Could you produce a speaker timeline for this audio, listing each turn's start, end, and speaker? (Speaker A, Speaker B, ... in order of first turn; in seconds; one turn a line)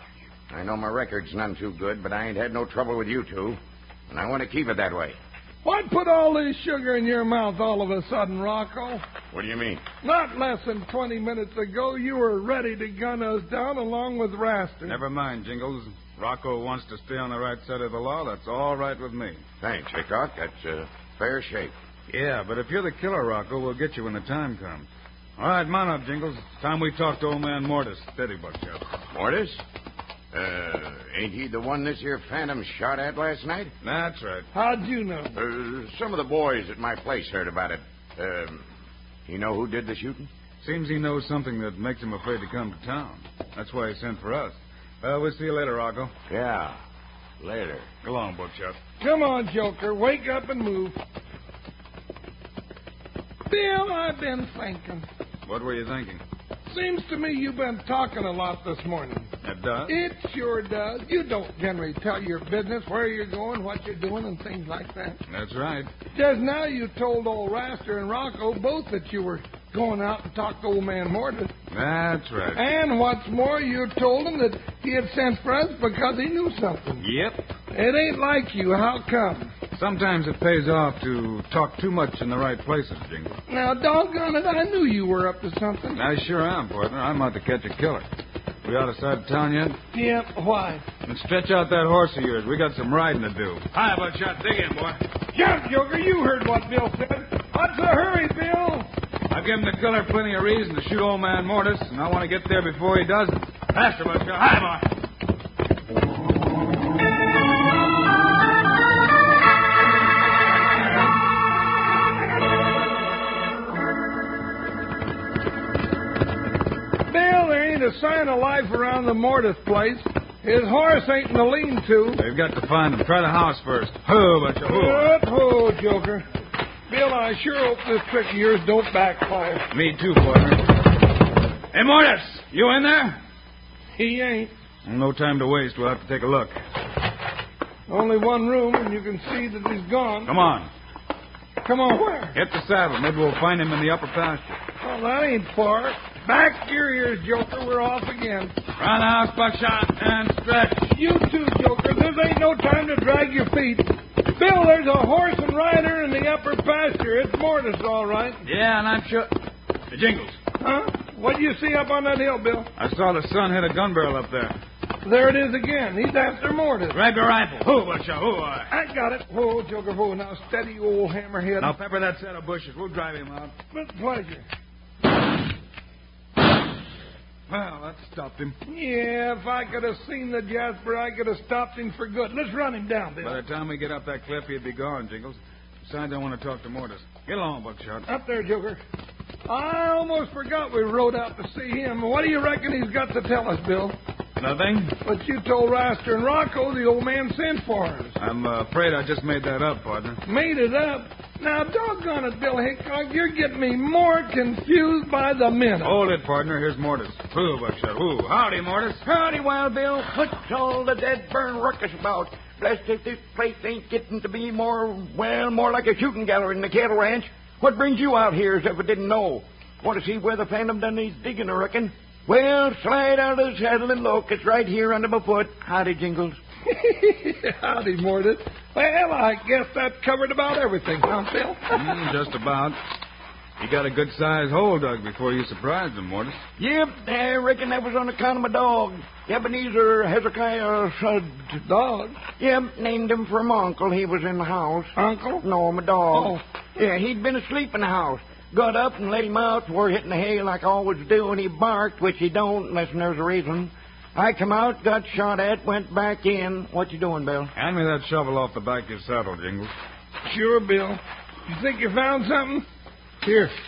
Speaker A: 0.5-3.6
Speaker A: 4.1-5.2
Speaker B: 5.6-9.0
Speaker A: 9.3-9.8
Speaker B: 10.0-15.0
Speaker C: 14.9-19.4
Speaker A: 19.6-21.7
Speaker C: 22.1-28.9
Speaker A: 29.1-29.6
Speaker A: 30.3-33.7
Speaker C: 33.8-34.5
Speaker B: 34.5-35.4
Speaker A: 35.3-38.6
Speaker A: 39.3-40.3
Speaker C: 40.6-46.1
Speaker A: 46.3-46.8
Speaker A: 47.4-47.9
Speaker C: 48.0-48.8
Speaker B: 49.0-51.0
Speaker B: 53.5-55.1
Speaker C: 55.5-56.2
Speaker B: 56.7-59.3
Speaker C: 59.4-60.0
Speaker B: 59.9-65.2
Speaker C: 65.3-65.9
Speaker B: 66.1-71.5
Speaker C: 71.7-72.7
Speaker B: 72.5-77.0
Speaker C: 77.0-77.5
Speaker B: 77.7-79.5
Speaker C: 79.7-83.3
Speaker B: 83.5-86.0
Speaker C: 85.9-88.1
Speaker C: 88.6-89.8
Speaker B: 89.9-90.8
Speaker C: 91.0-95.0
Speaker B: 95.3-98.9
Speaker C: 99.3-104.9
Speaker B: 117.1-122.2
Speaker C: 122.2-125.1
Speaker B: 124.7-126.2
Speaker B: 126.9-129.7
Speaker C: 129.7-130.7
Speaker C: 131.7-133.2
Speaker B: 133.9-134.5
Speaker C: 134.8-136.6
Speaker B: 137.9-140.4
Speaker C: 140.3-140.7
Speaker B: 141.6-142.4
Speaker C: 142.3-144.6
Speaker B: 144.8-148.6
Speaker C: 148.8-150.9
Speaker B: 150.9-158.4
Speaker C: 158.4-159.3
Speaker C: 159.9-160.4
Speaker B: 160.6-162.7
Speaker C: 162.8-164.6
Speaker B: 165.0-167.0
Speaker C: 166.9-168.7
Speaker B: 168.7-171.7
Speaker C: 171.6-173.5
Speaker B: 173.7-174.4
Speaker C: 177.5-178.6
Speaker B: 178.7-183.4
Speaker C: 183.2-188.1
Speaker B: 188.1-188.8
Speaker B: 189.5-194.0
Speaker C: 194.4-195.0
Speaker B: 195.0-198.2
Speaker C: 198.2-200.2
Speaker B: 200.2-206.0
Speaker C: 205.8-209.0
Speaker A: 209.0-226.4
Speaker B: 226.7-231.9
Speaker C: 231.7-232.8
Speaker C: 233.6-236.4
Speaker A: 236.6-241.6
Speaker B: 241.7-242.2
Speaker A: 242.4-257.5
Speaker B: 245.0-245.5
Speaker B: 246.1-246.4
Speaker C: 257.6-259.7
Speaker B: 260.2-262.6
Speaker B: 263.2-263.5